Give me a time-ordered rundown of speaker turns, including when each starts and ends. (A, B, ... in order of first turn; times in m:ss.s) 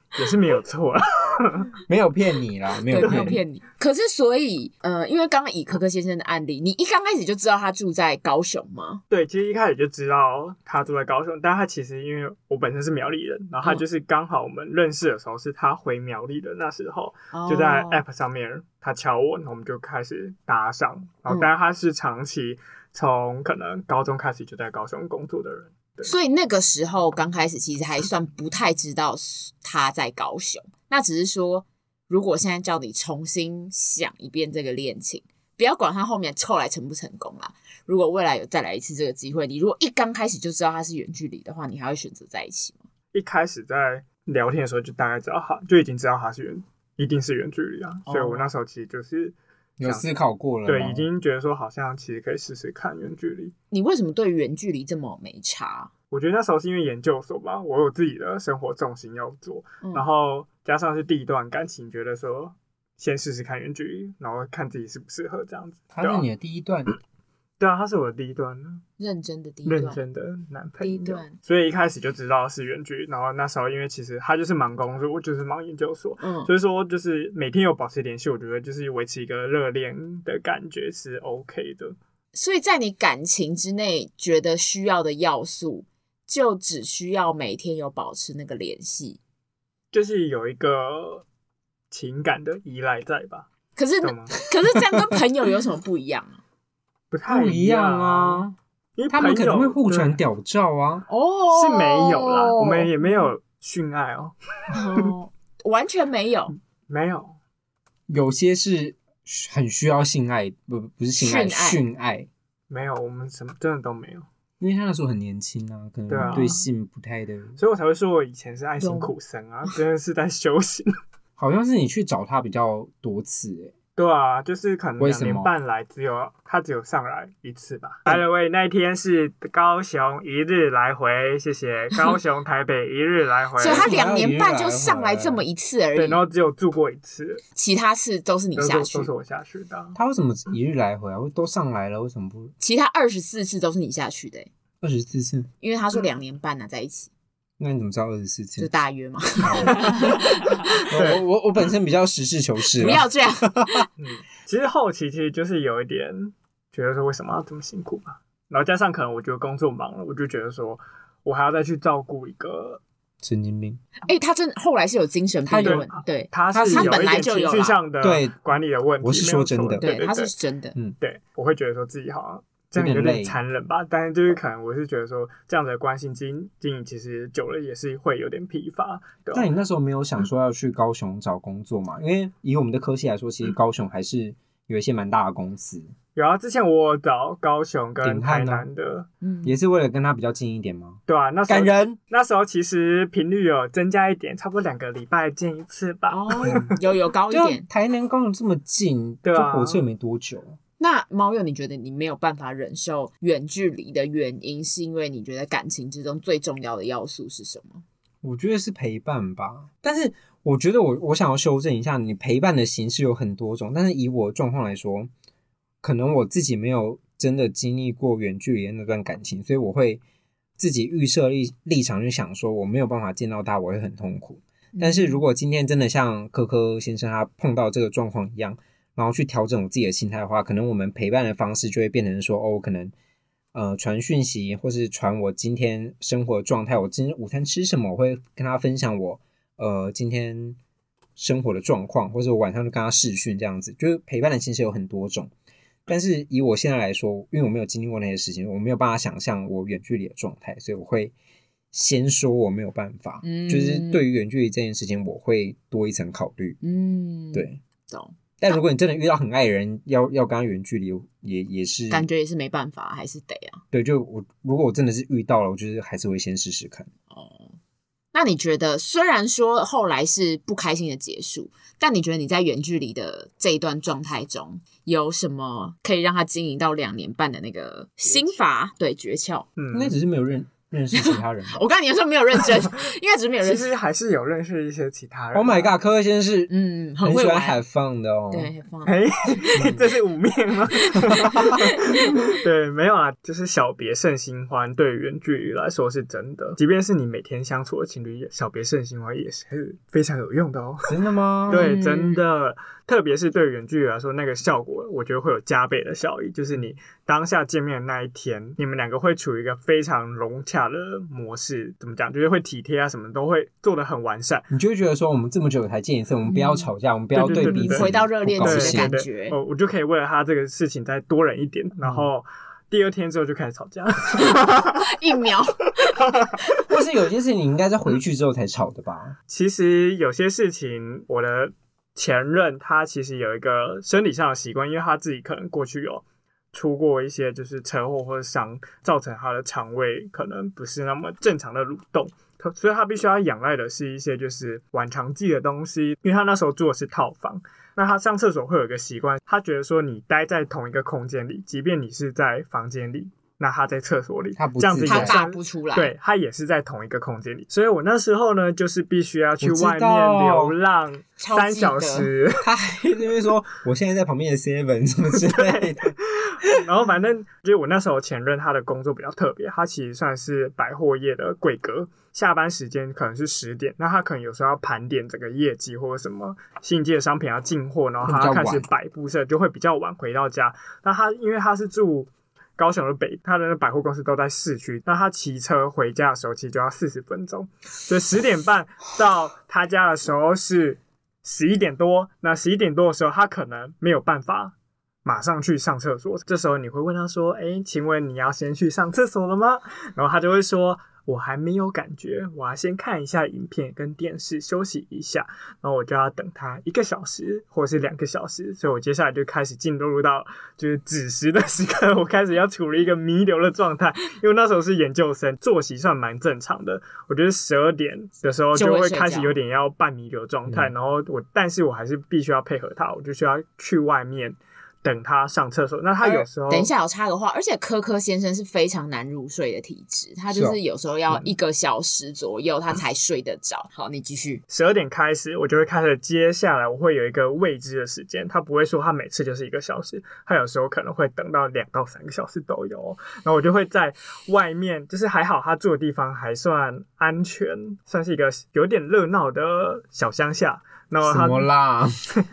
0:00.2-0:01.7 A
0:01.8-0:03.4 B
0:02.9-0:09.0 C
0:03.0-0:03.4 A
0:09.1-0:26.1 A
0:17.3-0:18.0 C
0:26.0-0:42.8 C
0:43.1-0:50.1 A
0:48.0-0:48.4 C
0:49.8-0:51.1 B
0:50.6-0:53.5 A
0:53.7-0:55.9 C
0:56.1-1:06.2 A
1:05.9-1:06.9 B
1:07.6-1:08.8 A
1:09.0-1:10.0 C
1:09.6-1:21.9 A
1:10.8-1:11.4 C
1:16.2-1:16.5 C
1:22.3-1:29.2 C
1:29.9-1:31.2 A
1:31.9-1:33.5 A
1:33.8-1:36.4 C
1:34.0-1:34.4 A
1:37.1-1:38.4 A
1:37.3-1:38.5 B
1:39.0-1:40.2 A
1:39.1-1:41.0 B
1:41.1-1:43.3 C
1:41.5-1:44.4 A
1:44.7-1:46.6 C
1:46.9-1:47.4 A
1:48.1-1:52.3 B
1:51.2-1:51.8 C
1:52.7-1:54.2 A
1:54.6-1:57.6 B
1:56.1-1:56.6 A
1:56.2-1:56.6 C
1:57.6-2:00.9 A
1:58.8-1:59.1 C
2:01.4-2:03.7 B
2:04.0-2:13.9 A
2:05.0-2:05.5 B
2:13.6-2:16.2 C
2:13.6-2:15.4 B
2:15.9-2:17.4 A
2:17.5-2:19.1 C
2:18.6-2:20.0 A
2:19.9-2:22.5 B
2:22.6-2:24.5 C
2:24.8-2:25.5 B
2:25.6-2:27.1 C
2:27.6-2:28.7 B
2:28.6-2:30.3 C
2:29.4-2:30.1 B
2:29.6-2:31.2 A
2:30.9-2:33.8 B
2:32.7-2:33.9 C
2:34.0-2:42.8 A
2:43.2-2:43.8 B
2:44.0-2:47.8 C
2:45.4-2:45.9 B
2:45.6-2:50.3 A
2:46.5-2:47.1 B
2:48.0-2:48.3 B
2:49.0-2:49.8 B
2:49.8-2:50.8 C
2:51.0-2:59.5 A
2:52.8-2:53.4 B
2:59.3-3:05.9 B
3:06.2-3:09.1 A
3:08.0-3:08.7 B
3:09.2-3:09.6 C
3:09.4-3:12.0 B
3:11.1-3:16.7 A
3:16.1-3:17.6 C
3:17.3-3:20.6 B
3:19.2-3:19.8 A
3:20.8-3:27.8 C
3:28.2-3:35.1 B
3:35.8-3:40.0 B
3:40.6-3:52.9 B
3:44.7-3:45.2 C
3:53.5-4:00.6 B
4:01.2-4:05.3 B
4:05.9-4:11.1 B
4:11.7-4:16.6 B
4:13.2-4:14.0 C
4:16.6-4:18.6 C
4:17.3-4:17.6 B
4:18.4-4:22.1 B
4:21.9-4:23.6 C
4:23.7-4:26.9 B
4:27.1-4:27.5 C
4:28.1-4:39.5 C
4:39.6-4:39.9 A
4:39.7-4:41.6 B
4:40.9-4:43.7 C
4:43.4-4:45.7 A
4:45.3-4:46.5 B
4:46.5-4:47.6 C
4:47.0-4:48.5 B
4:48.3-4:49.5 C
4:48.8-5:14.4 A
4:49.5-4:49.8 B
4:51.0-4:52.3 C
4:51.2-4:51.5 B
5:00.9-5:01.7 B
5:01.5-5:02.2 C
5:14.5-5:19.0 B
5:16.3-5:16.7 C
5:17.1-5:24.9 A
5:17.2-5:19.4 C
5:24.2-5:26.6 C
5:26.6-5:29.2 B
5:29.3-6:02.5 A
5:54.4-5:55.2 B
5:54.8-5:55.9 C
5:59.4-6:00.5 B
6:01.2-6:02.1 C
6:02.4-6:06.5 B
6:05.1-6:34.5 A
6:18.0-6:18.7 B
6:35.0-7:06.7 A
6:58.5-6:59.4 C
7:06.0-7:14.4 C
7:10.3-7:10.6 B
7:14.5-7:31.5 A
7:31.0-7:32.0 B